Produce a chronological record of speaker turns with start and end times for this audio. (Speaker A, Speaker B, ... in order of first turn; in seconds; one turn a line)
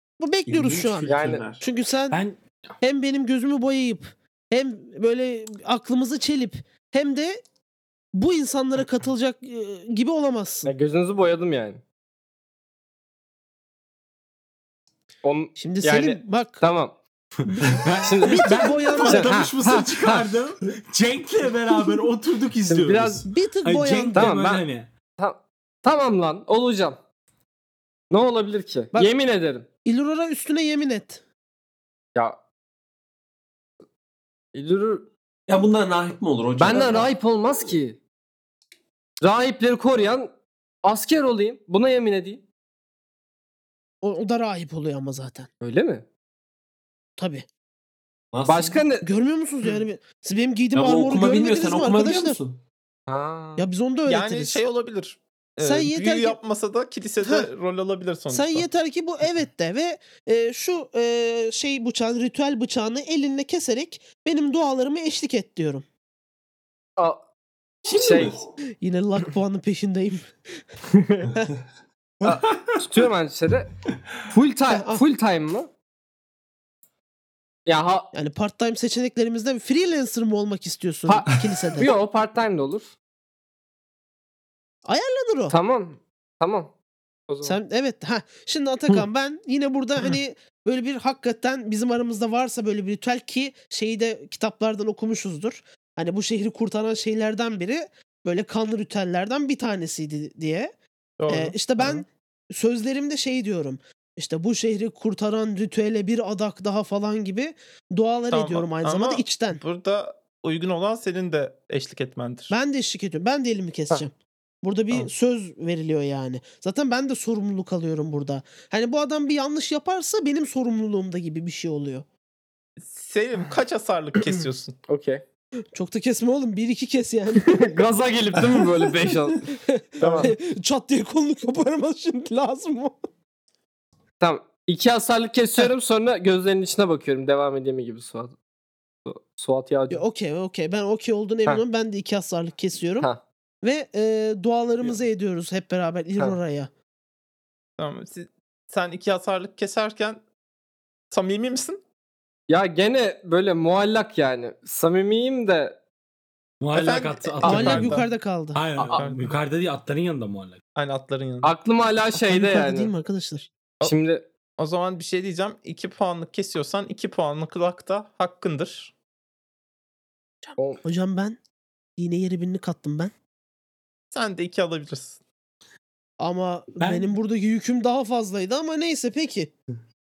Speaker A: 0.2-2.2
Speaker B: 0.5-1.6
Speaker C: 1.1-1.4
Speaker D: 2.1-2.4
Speaker A: 2.8-7.4
Speaker A: 8.1-10.7
Speaker C: 10.6-11.8
Speaker C: 15.2-16.9
Speaker A: 15.6-16.6
Speaker A: 17.4-19.4
Speaker D: 17.7-24.9
Speaker C: 18.0-20.2
Speaker C: 22.7-23.3
Speaker A: 23.2-24.3
Speaker C: 24.1-24.6
Speaker C: 25.2-27.0
Speaker C: 28.1-29.7
Speaker A: 29.8-31.2
Speaker C: 34.5-35.1
Speaker B: 35.5-37.1
Speaker C: 36.5-38.0
Speaker C: 39.2-40.3
Speaker C: 40.8-42.4
Speaker A: 44.0-45.5
Speaker C: 45.6-46.0
Speaker A: 47.2-47.5
Speaker B: 48.3-48.8
Speaker C: 48.5-49.0
Speaker A: 49.0-52.4
Speaker B: 50.7-52.6
Speaker C: 53.1-53.6
Speaker A: 53.6-54.6
Speaker E: 54.0-58.6
Speaker A: 55.6-56.4
Speaker A: 57.2-57.5
Speaker A: 58.3-65.8
Speaker C: 67.0-67.2
Speaker B: 67.8-68.4
Speaker C: 67.9-68.4
Speaker A: 68.8-70.3
Speaker C: 70.9-71.3
Speaker B: 72.2-73.0
Speaker C: 72.2-73.7
Speaker C: 74.3-75.7
Speaker A: 74.7-75.0
Speaker C: 77.7-78.1
Speaker A: 78.1-81.9
Speaker C: 81.1-82.9
Speaker A: 84.8-85.6
Speaker C: 85.5-86.7
Speaker C: 87.3-87.6
Speaker A: 87.4-100.7
Speaker E: 101.2-102.0
Speaker A: 101.3-109.6
Speaker E: 108.3-112.5
Speaker A: 112.5-122.0
Speaker E: 122.8-124.8
Speaker C: 124.9-125.2
Speaker A: 125.7-127.6
Speaker C: 127.3-129.4
Speaker A: 129.5-133.0
Speaker C: 130.0-130.3
Speaker E: 130.0-130.3
Speaker C: 134.2-138.3
Speaker C: 139.0-140.0
Speaker A: 139.9-143.1
Speaker A: 143.6-146.7
Speaker E: 147.8-150.2
Speaker E: 151.1-151.8
Speaker C: 152.5-155.8
Speaker D: 156.6-160.6
Speaker E: 156.7-158.1
Speaker A: 157.4-158.6
Speaker C: 158.8-159.1
Speaker E: 158.9-159.3
Speaker E: 160.7-161.5
Speaker C: 161.4-162.9
Speaker A: 162.1-163.5
Speaker C: 163.8-164.2
Speaker E: 164.6-168.9
Speaker C: 170.6-170.8
Speaker A: 170.8-171.4
Speaker A: 172.0-173.1
Speaker E: 174.1-175.2
Speaker A: 176.2-179.5
Speaker D: 176.8-177.1